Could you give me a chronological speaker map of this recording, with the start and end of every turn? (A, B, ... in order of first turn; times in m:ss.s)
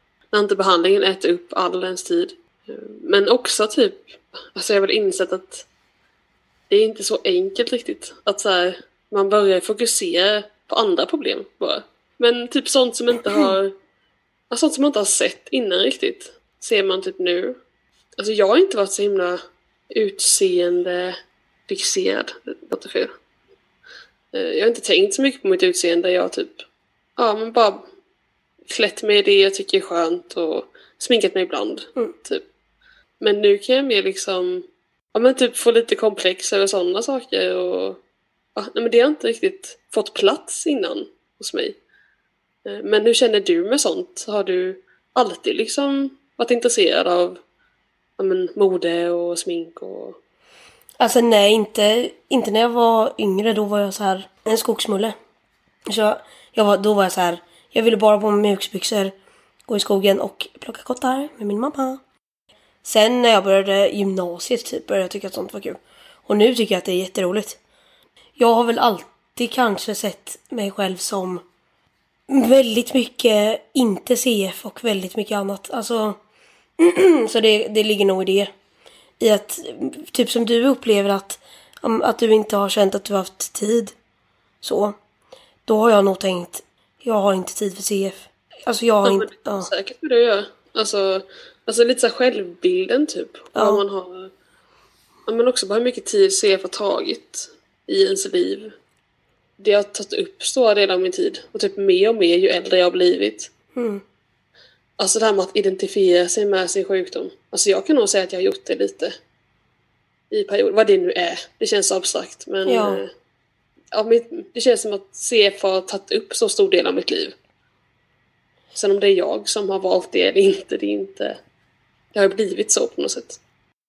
0:00.3-0:05.7 A
0:06.7-0:13.7 A
0:14.5-0:17.6 A
0:18.2-0:21.2 A
0:21.7-0:23.1 A
0:24.3-0:26.6 A
0:27.2-0:27.8 A
0:28.7-0:32.4 A
0:33.2-0:38.0 A
0:38.6-0:41.8 A
0:42.6-0:47.4 A
0:48.2-0:50.2 A
0:51.0-0:55.2 B
0:55.9-0:59.1 B
0:59.7-1:02.0 B
1:02.8-1:07.6 B
1:08.4-1:11.4 B
1:12.3-1:16.2 B
1:16.8-1:18.5 B
1:19.2-1:23.9 B
1:24.6-1:24.9 B
1:25.6-1:29.7 B
1:29.0-1:34.3 A
1:33.6-1:33.8 B
1:35.3-1:38.7 A
1:39.6-1:43.5 A
1:43.7-1:44.0 B
1:45.0-1:49.1 A
1:50.3-1:53.1 A
1:52.7-1:53.0 B
1:53.9-1:57.3 A
1:58.7-2:01.4 A
2:02.1-2:03.4 A